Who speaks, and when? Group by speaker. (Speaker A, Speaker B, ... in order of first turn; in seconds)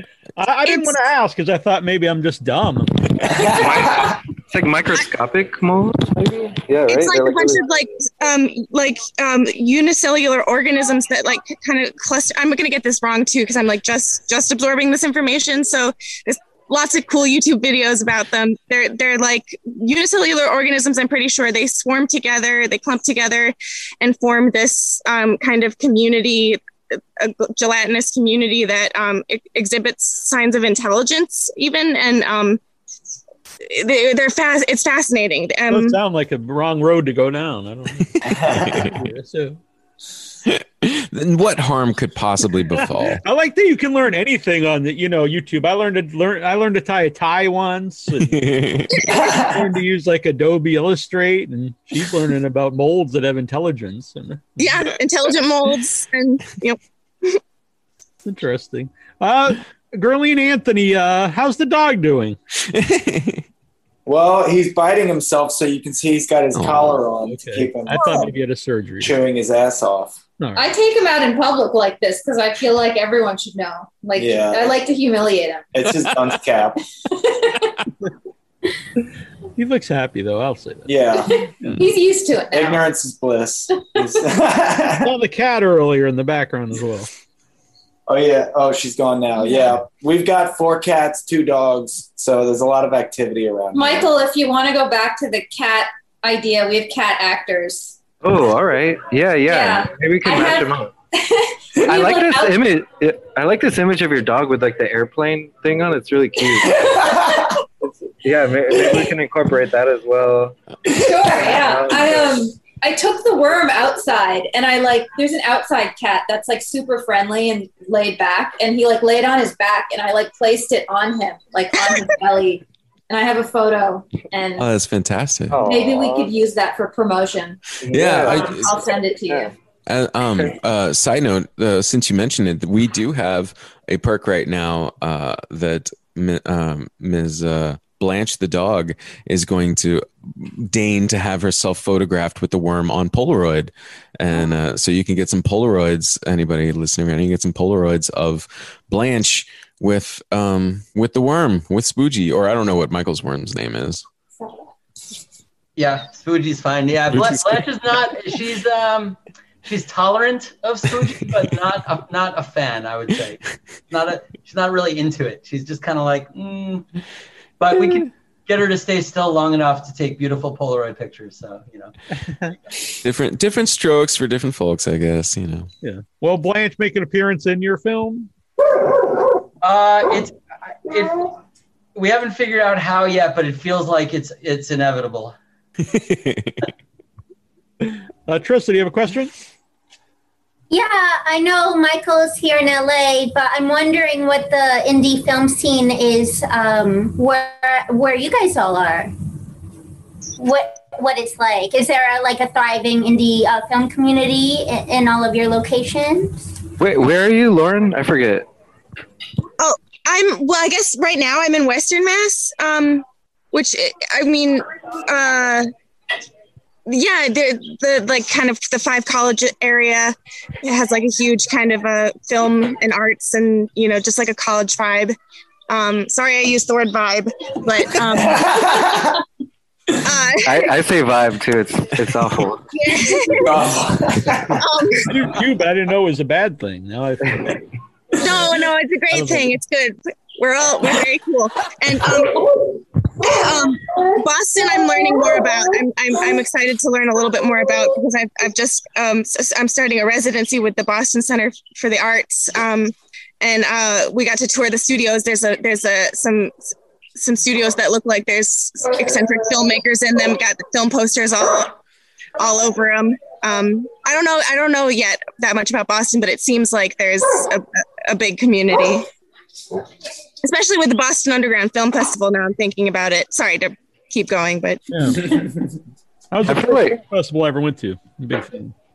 Speaker A: 0.4-3.6, 35.7-39.6, 42.9-48.5, 49.3-54.6, 58.2-62.4, 67.3-69.1, 70.4-70.7, 79.5-81.1, 81.6-81.9, 85.0-87.1, 175.8-178.3, 187.8-189.3, 235.0-237.6, 239.1-239.5, 274.9-275.8, 276.3-278.7
Speaker B: 0.7-0.9, 6.9-26.6, 27.2-32.6, 33.6-36.0, 54.6-57.4, 209.6-215.7, 216.8-225.2, 225.7-228.7, 230.0-230.7, 232.7-233.6, 234.6-235.1, 238.1-242.7, 243.2-261.7, 262.4-269.1, 270.4-274.8
Speaker C: 3.3-4.2, 38.2-38.9, 49.1-49.6, 64.0-68.3, 69.0-70.2, 74.2-74.8, 75.7-76.8, 80.9-81.8, 82.5-85.1, 88.1-94.1, 106.8-107.5, 228.1-229.2, 233.3-234.9
Speaker D: 3.5-7.7, 98.2-100.9, 101.9-106.9, 108.2-110.5, 111.4-112.3, 125.5-126.3, 127.8-129.5, 206.8-208.5, 230.4-232.7, 276.4-277.0
Speaker E: 38.4-39.0, 40.4-43.2, 48.2-49.1, 62.6-63.4, 66.5-67.0, 124.6-125.6, 127.9-128.7, 129.9-154.0, 173.0-175.7, 185.9-186.7
Speaker F: 70.5-75.7, 81.7-82.8, 83.9-84.2, 93.7-98.0, 99.5-102.8, 110.9-124.7, 125.6-127.6, 128.1-129.5
Speaker G: 155.8-166.8, 167.6-171.9, 179.6-181.3, 181.9-185.3
Speaker H: 190.7-199.1, 200.4-206.5